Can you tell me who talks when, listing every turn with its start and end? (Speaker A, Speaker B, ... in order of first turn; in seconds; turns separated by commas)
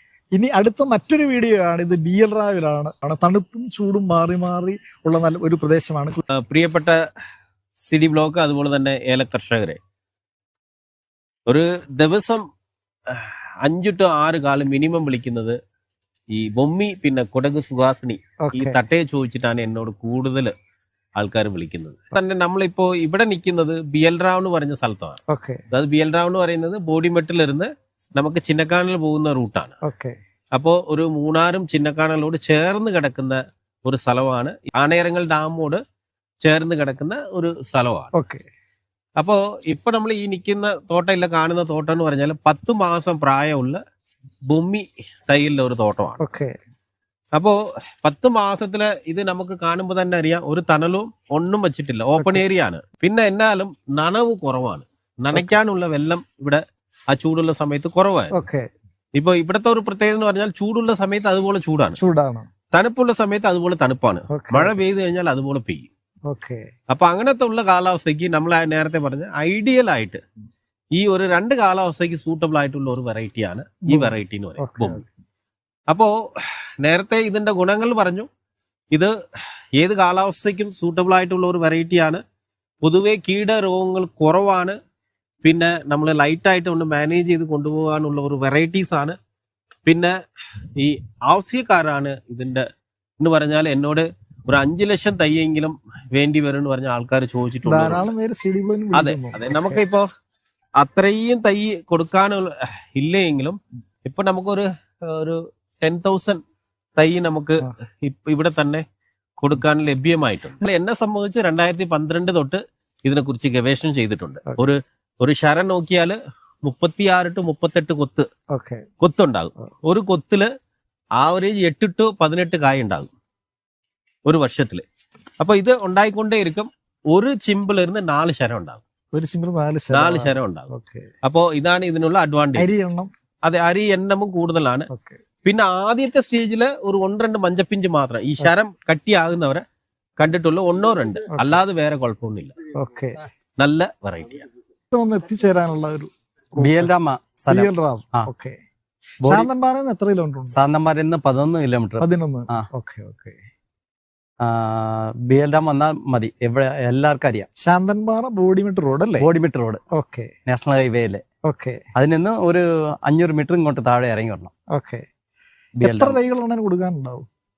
Speaker A: 0.3-6.2, Speaker B: 6.3-7.0, Speaker B: 7.9-9.8, Speaker B: 11.5-12.4, Speaker B: 13.1-15.6, Speaker B: 16.3-20.5, Speaker A: 18.4-18.8, Speaker B: 21.2-25.2, Speaker A: 25.3-25.6, Speaker B: 25.7-29.7, Speaker A: 29.8-30.2, Speaker B: 30.6-35.8, Speaker B: 36.4-38.1, Speaker A: 38.1-38.5, Speaker B: 39.2-43.8, Speaker B: 44.5-46.2, Speaker A: 46.2-46.5, Speaker B: 47.3-56.6, Speaker B: 57.1-58.3, Speaker A: 58.3-58.7, Speaker B: 59.2-62.0, Speaker A: 62.0-62.5, Speaker B: 62.7-65.9, Speaker A: 64.3-64.8, Speaker A: 66.3-66.7, Speaker B: 66.9-70.2, Speaker B: 70.9-75.0, Speaker A: 73.9-75.1, Speaker B: 76.8-78.3, Speaker B: 79.8-82.2, Speaker B: 82.8-84.8, Speaker B: 85.4-89.1, Speaker B: 89.9-90.1, Speaker B: 90.8-92.6, Speaker B: 93.2-98.1, Speaker A: 97.7-99.8, Speaker B: 98.9-100.1, Speaker B: 100.8-106.4, Speaker B: 107.0-108.8, Speaker B: 109.4-118.3, Speaker A: 118.5-118.8, Speaker B: 119.0-120.5, Speaker B: 121.2-123.1, Speaker B: 124.2-124.8, Speaker B: 125.4-128.8, Speaker A: 129.1-131.1, Speaker B: 129.9-130.7, Speaker B: 131.2-132.7, Speaker A: 132.6-133.1, Speaker B: 133.4-134.9, Speaker A: 134.9-135.2, Speaker B: 135.4-139.6, Speaker B: 140.2-142.5, Speaker A: 141.3-141.6, Speaker A: 142.8-143.2, Speaker B: 143.6-144.4, Speaker A: 144.9-146.9, Speaker C: 146.6-148.3, Speaker A: 147.5-148.6, Speaker C: 149.2-149.5, Speaker A: 149.2-150.6, Speaker C: 150.5-152.7, Speaker A: 152.0-153.4, Speaker C: 154.4-157.5, Speaker A: 157.6-159.3, Speaker C: 159.2-159.8, Speaker A: 159.9-160.3, Speaker C: 160.5-161.2, Speaker A: 161.5-161.8, Speaker C: 162.0-164.5, Speaker A: 164.7-165.1, Speaker C: 165.8-166.2, Speaker A: 165.8-167.3